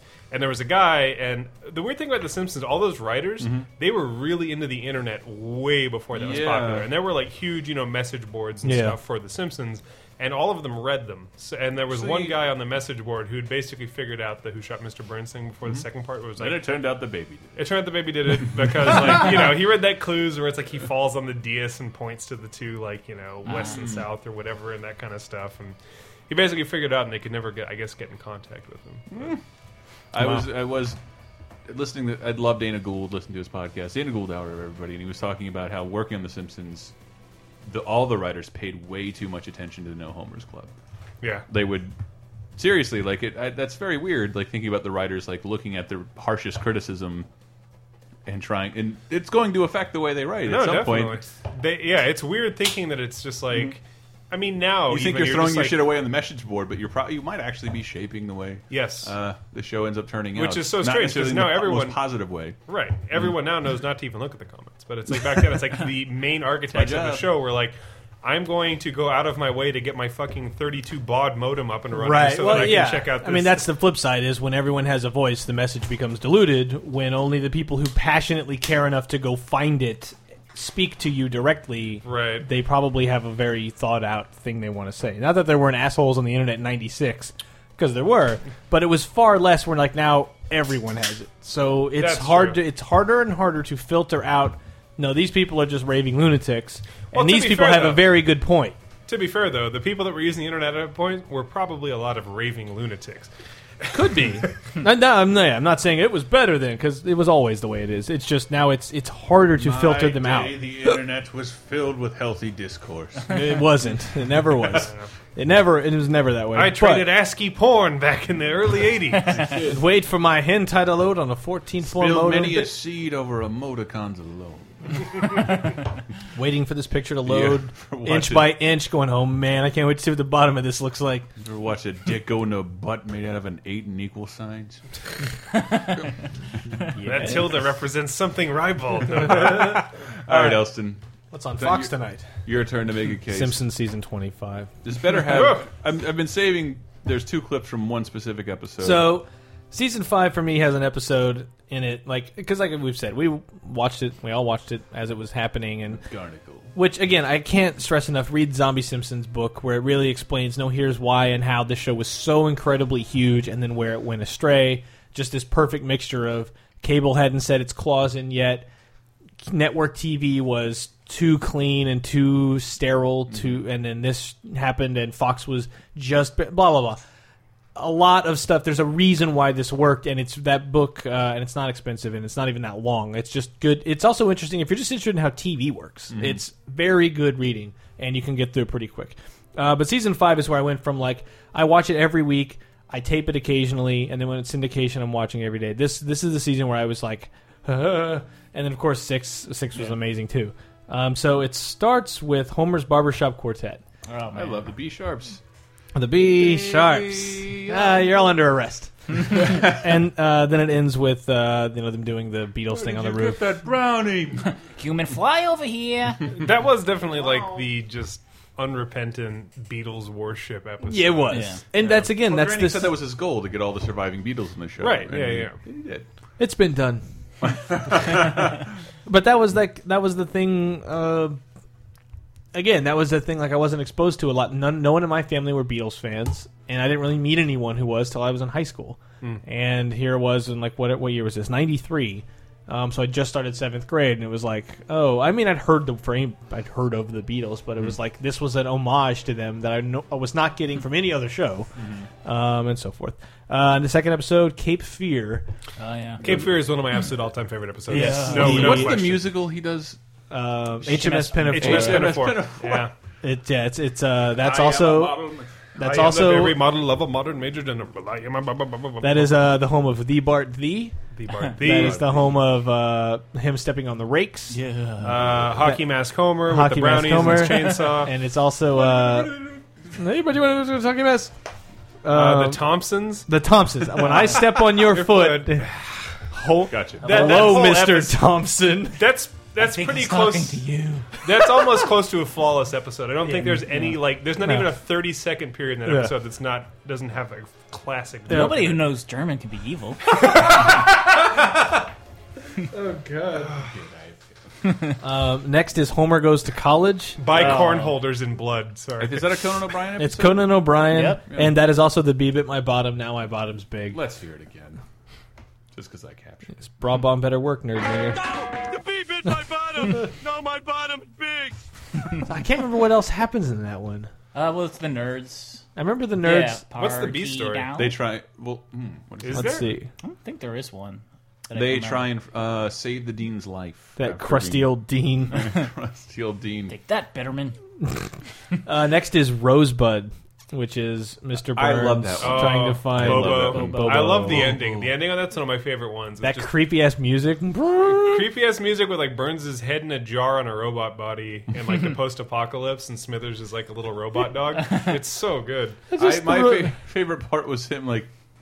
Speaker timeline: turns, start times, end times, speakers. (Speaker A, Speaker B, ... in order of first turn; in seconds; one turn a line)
Speaker A: 0.3-16.6
Speaker B: 3.4-3.7
Speaker B: 6.1-7.0
Speaker C: 8.6-9.0
Speaker B: 11.9-12.4
Speaker B: 15.6-17.6
Speaker A: 17.6-25.8
Speaker B: 18.3-19.5
Speaker D: 23.4-23.9
Speaker B: 23.6-24.1
Speaker A: 26.3-29.4
Speaker B: 29.1-29.4
Speaker B: 30.1-31.0
Speaker C: 30.2-30.4
Speaker B: 31.6-36.9
Speaker B: 37.6-40.7
Speaker B: 41.5-41.9
Speaker B: 42.6-47.3
Speaker B: 48.2-51.2
Speaker A: 50.4-55.9
Speaker B: 53.5-53.7
Speaker B: 54.9-62.6
Speaker A: 58.7-59.1
Speaker A: 60.3-62.0
Speaker A: 62.6-73.7
Speaker B: 66.7-67.4
Speaker C: 71.9-98.8
Speaker A: 82.0-82.5
Speaker A: 92.0-92.6
Speaker A: 97.1-98.2
Speaker A: 99.0-103.3
Speaker A: 103.8-104.4
Speaker C: 103.9-110.6
Speaker B: 109.5-113.6
Speaker C: 113.3-117.1
Speaker A: 114.7-115.1
Speaker A: 116.5-119.6
Speaker B: 119.3-119.8
Speaker C: 119.7-122.8
Speaker B: 121.8-125.4
Speaker C: 126.3-131.3
Speaker B: 127.2-128.6
Speaker B: 131.4-134.8
Speaker D: 135.5-136.0
Speaker C: 136.9-137.5
Speaker A: 137.0-139.9
Speaker C: 139.3-140.7
Speaker B: 140.2-141.0
Speaker C: 141.3-142.3
Speaker B: 141.5-143.6
Speaker C: 143.3-144.7
Speaker B: 144.8-149.2
Speaker A: 145.2-145.7
Speaker C: 148.8-156.0
Speaker B: 155.9-156.7
Speaker C: 156.7-168.7
Speaker C: 169.4-177.0
Speaker C: 177.7-203.8
Speaker B: 186.1-186.4
Speaker D: 204.1-204.6
Speaker B: 204.3-205.4
Speaker C: 205.9-213.5
Speaker B: 206.2-208.3
Speaker B: 209.3-209.7
Speaker B: 212.7-214.5
Speaker D: 214.4-216.4
Speaker A: 216.3-221.5
Speaker C: 220.9-222.9
Speaker D: 221.3-221.6
Speaker B: 221.8-226.0
Speaker A: 224.8-225.6
Speaker C: 226.4-227.0
Speaker B: 227.4-228.6
Speaker C: 229.1-231.4
Speaker C: 232.5-251.7
Speaker B: 251.8-252.1
Speaker C: 252.2-255.4
Speaker D: 255.8-256.2
Speaker B: 256.2-256.5
Speaker A: 256.2-259.2
Speaker C: 257.9-259.0
Speaker B: 257.9-260.0
Speaker C: 260.3-262.2
Speaker D: 260.9-261.8
Speaker A: 261.5-262.9
Speaker B: 261.5-262.9
Speaker C: 263.2-266.6
Speaker B: 264.4-265.6
Speaker A: 265.8-269.4
Speaker C: 269.0-271.0
Speaker A: 271.1-272.3
Speaker C: 271.6-274.6
Speaker B: 271.7-272.0
Speaker D: 274.5-275.5
Speaker A: 275.0-278.1
Speaker B: 275.0-275.5
Speaker C: 275.6-279.4
Speaker B: 278.7-279.6
Speaker C: 279.9-281.3
Speaker C: 282.0-285.7
Speaker A: 282.1-283.3
Speaker A: 283.9-286.2
Speaker C: 286.3-289.0
Speaker B: 286.7-287.6
Speaker A: 287.0-288.2
Speaker D: 287.2-287.5
Speaker A: 288.9-290.6
Speaker D: 289.6-291.2
Speaker A: 291.2-298.8
Speaker C: 293.2-294.8
Speaker C: 295.9-296.1
Speaker C: 298.3-298.6
Speaker D: 298.3-300.4
Speaker C: 302.7-303.6
Speaker B: 303.6-304.2
Speaker C: 305.0-307.2
Speaker A: 307.2-309.4
Speaker D: 307.3-308.0
Speaker B: 309.0-310.7
Speaker C: 310.0-314.0
Speaker D: 310.9-311.2
Speaker B: 311.3-311.6
Speaker B: 313.9-314.8
Speaker B: 315.7-316.5
Speaker C: 316.6-318.2
Speaker E: 318.3-321.6
Speaker C: 322.2-324.1
Speaker D: 324.3-325.6
Speaker C: 325.8-326.6
Speaker D: 326.2-327.9
Speaker A: 326.8-327.7
Speaker B: 327.7-329.6
Speaker A: 329.2-329.7
Speaker C: 329.3-329.9
Speaker D: 330.0-332.1
Speaker B: 331.5-334.8
Speaker C: 333.9-335.4
Speaker B: 335.3-336.8
Speaker D: 336.7-337.6
Speaker C: 338.6-344.5
Speaker B: 341.5-344.8
Speaker A: 342.2-346.5
Speaker D: 343.5-344.7
Speaker C: 346.2-348.2
Speaker A: 347.9-355.8
Speaker C: 355.9-356.8
Speaker B: 355.9-358.1